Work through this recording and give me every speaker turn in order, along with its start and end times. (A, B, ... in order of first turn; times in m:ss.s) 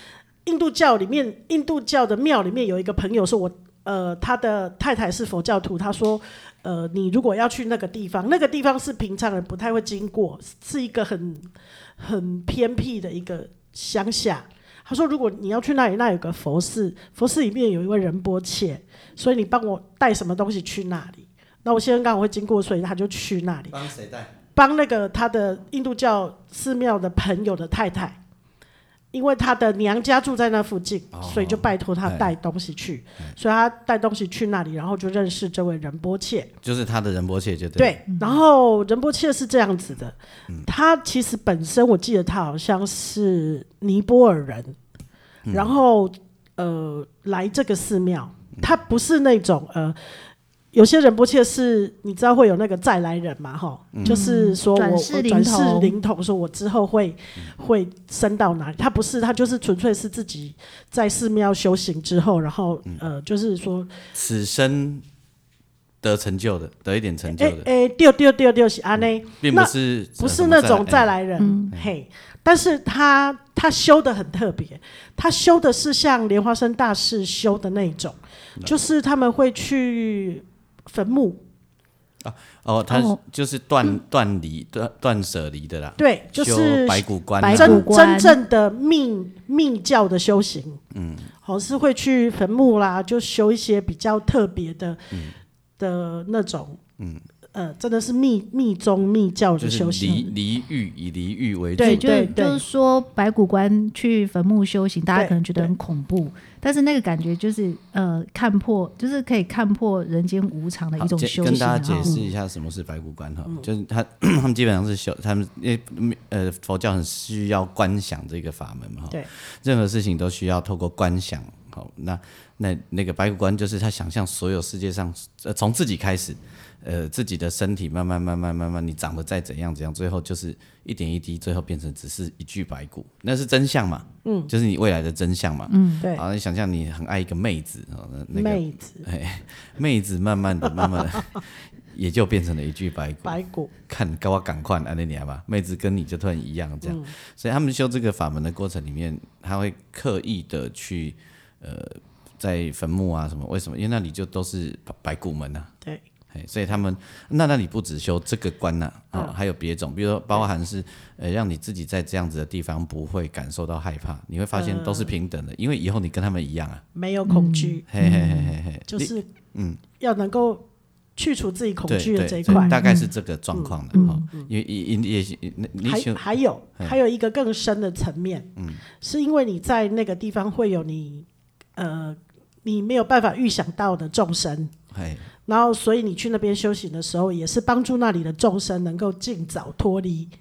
0:00.4-0:23.8 A
0:23.7-0:24.3 B
0:24.5-0:28.2 A
0:29.1-0:36.5 A
0:31.1-0:32.3 B
0:36.6-0:38.0 B
0:37.8-0:44.8 A
0:38.1-0:38.4 C
0:45.4-0:45.8 B
0:45.5-0:50.0 A
0:50.7-1:03.9 A
0:53.9-0:54.2 B
0:54.0-0:55.9 C
1:04.1-1:05.0 B
1:06.0-1:07.7 B
1:07.3-1:21.4 A
1:09.0-1:11.1 B
1:11.4-1:11.7 C
1:22.2-1:27.9 B
1:22.9-1:23.2 C
1:26.0-1:30.8 A
1:27.4-1:28.4 C
1:30.9-1:31.3 B
1:31.4-1:35.1 A
1:35.8-1:36.8 A
1:37.0-1:37.2 B
1:37.5-1:40.3 A
1:39.6-1:42.3 B
1:40.0-1:40.3 C
1:41.8-1:42.6 A
1:41.8-1:52.2 C
1:45.1-1:45.7 A
1:51.0-2:35.7 B
2:14.2-2:14.5 A
2:15.7-2:16.0 C
2:18.3-2:19.0 A
2:23.2-2:23.7 A
2:26.8-2:27.1 A
2:36.3-2:46.8 B
2:44.5-2:45.1 A
2:46.9-2:47.8 A
2:47.3-2:48.5 C
2:47.9-2:49.8 B
2:48.9-2:49.3 A
2:50.0-2:50.6 A
2:51.2-2:52.8 A
2:51.9-2:56.2 B
2:52.5-2:53.1 C
2:53.5-2:54.5 A
2:53.9-2:54.2 C
2:55.8-2:58.5 A
2:58.6-2:58.8 B
2:59.0-3:04.7 A
3:04.9-3:05.3 B
3:05.5-3:10.3 A